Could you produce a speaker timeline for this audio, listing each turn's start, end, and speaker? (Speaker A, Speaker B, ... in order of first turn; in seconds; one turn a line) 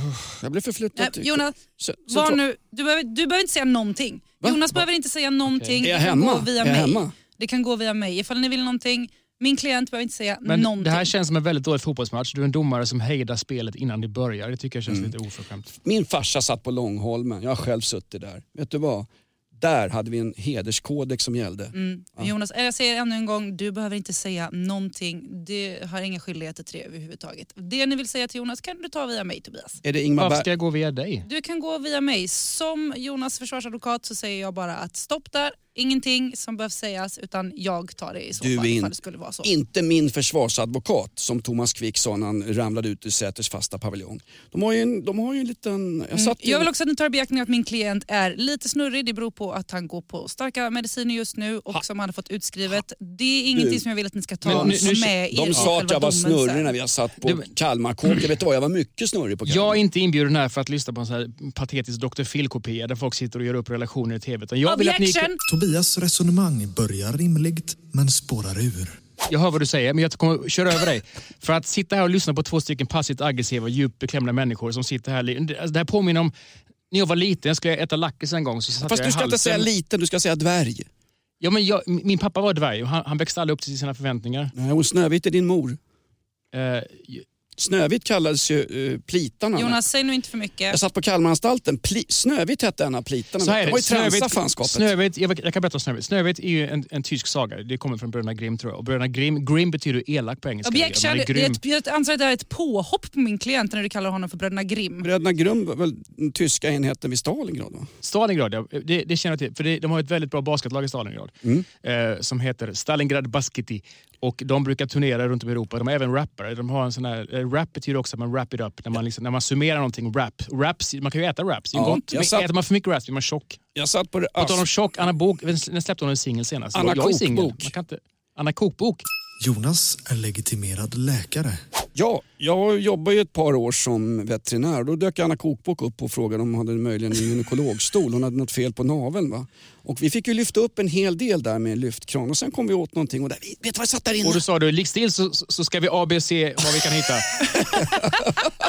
Speaker A: 0.2-2.4
Speaker B: 0.9-1.6
Speaker B: 2.1-11.1
Speaker A: 4.4-4.8
Speaker C: 5.5-5.8
Speaker A: 5.8-7.1
Speaker C: 10.4-15.7
Speaker A: 14.9-15.1
Speaker A: 15.8-22.3
Speaker B: 21.7-29.8
Speaker A: 29.8-30.5
Speaker C: 30.2-31.3
Speaker B: 31.2-39.5
Speaker A: 38.4-46.7
Speaker B: 46.1-56.7
Speaker A: 53.5-53.8
Speaker A: 54.4-59.8
Speaker C: 54.4-54.9
Speaker C: 59.5-65.3
Speaker B: 64.6-65.4
Speaker D: 65.5-69.0
Speaker C: 69.3-76.3
Speaker C: 76.9-79.7
Speaker A: 78.8-80.9
Speaker C: 81.4-84.5
Speaker A: 84.5-85.8
Speaker C: 86.5-87.2
Speaker A: 87.6-89.8
Speaker B: 89.5-90.8
Speaker A: 90.7-94.9
Speaker C: 93.4-101.6
Speaker B: 100.6-105.1
Speaker A: 105.0-107.9
Speaker C: 108.0-123.6
Speaker A: 121.7-122.5
Speaker A: 123.7-124.6
Speaker C: 124.4-129.0
Speaker A: 126.7-127.7
Speaker D: 129.4-131.6
Speaker A: 131.9-144.4
Speaker C: 144.2-147.7
Speaker A: 147.7-148.1